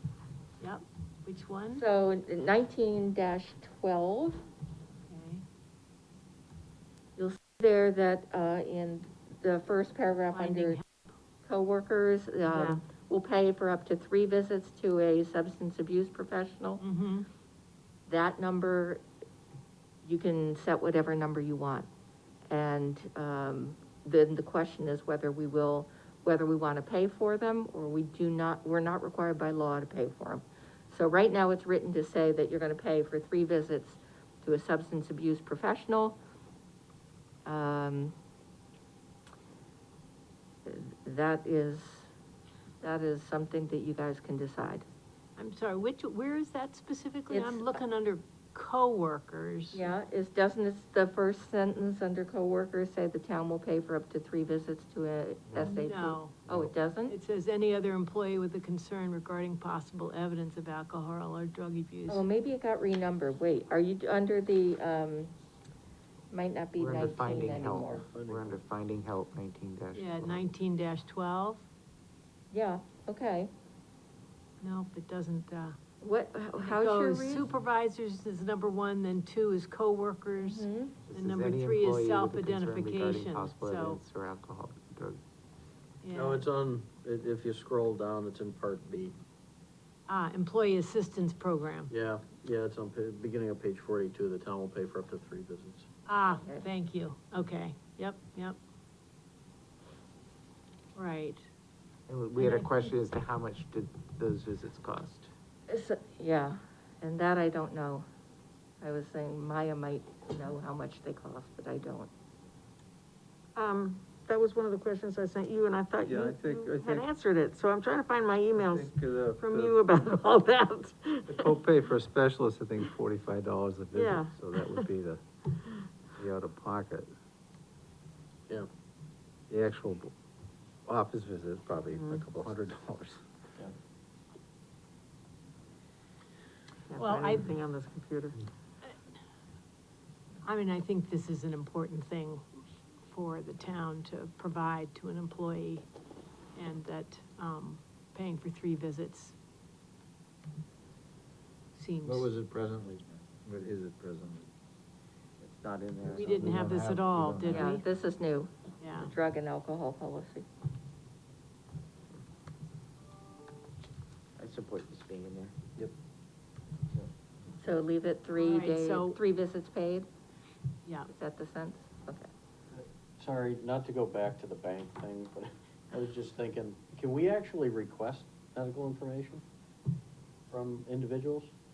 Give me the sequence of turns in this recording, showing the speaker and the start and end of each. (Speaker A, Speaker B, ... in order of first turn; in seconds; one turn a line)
Speaker A: 0.6-1.8
Speaker B: 1.8-4.4
Speaker A: 5.1-5.4
Speaker B: 7.2-10.8
Speaker A: 10.3-10.9
Speaker B: 11.4-16.8
Speaker C: 12.5-12.8
Speaker A: 16.8-17.3
Speaker B: 18.1-19.0
Speaker B: 20.0-21.9
Speaker B: 22.5-36.2
Speaker B: 37.5-38.1
Speaker B: 40.6-42.1
Speaker B: 42.8-44.9
Speaker A: 45.4-49.8
Speaker B: 47.3-47.8
Speaker B: 49.7-57.1
Speaker A: 55.6-56.4
Speaker A: 57.1-62.3
Speaker B: 62.1-65.3
Speaker B: 66.3-68.0
Speaker D: 66.8-70.4
Speaker E: 67.5-68.6
Speaker A: 70.0-71.6
Speaker B: 72.5-73.5
Speaker A: 74.6-75.8
Speaker B: 76.0-77.5
Speaker A: 76.6-84.0
Speaker B: 80.4-81.0
Speaker D: 81.0-85.2
Speaker A: 86.0-86.5
Speaker E: 86.1-89.2
Speaker A: 90.1-91.9
Speaker E: 91.9-95.9
Speaker A: 96.1-98.6
Speaker B: 96.3-96.7
Speaker A: 101.0-101.5
Speaker D: 102.1-105.3
Speaker A: 102.4-102.9
Speaker B: 105.7-108.1
Speaker B: 108.8-112.1
Speaker C: 113.6-121.5
Speaker F: 116.0-117.0
Speaker F: 118.6-119.8
Speaker F: 121.3-125.2
Speaker C: 123.9-124.8
Speaker F: 126.2-127.1
Speaker F: 129.5-130.1
Speaker F: 130.9-133.2
Speaker C: 131.9-132.2
Speaker C: 136.9-138.4
Speaker A: 136.9-137.5
Speaker A: 140.4-145.9
Speaker A: 146.6-149.3
Speaker A: 151.7-152.3
Speaker F: 152.1-154.5
Speaker D: 155.4-156.7
Speaker A: 156.1-157.8
Speaker F: 156.2-157.7
Speaker B: 157.5-160.4
Speaker A: 158.8-159.1
Speaker D: 164.4-165.6
Speaker B: 167.6-170.1
Speaker A: 168.4-169.2
Speaker B: 171.1-172.3
Speaker E: 172.7-179.4
Speaker E: 180.5-181.5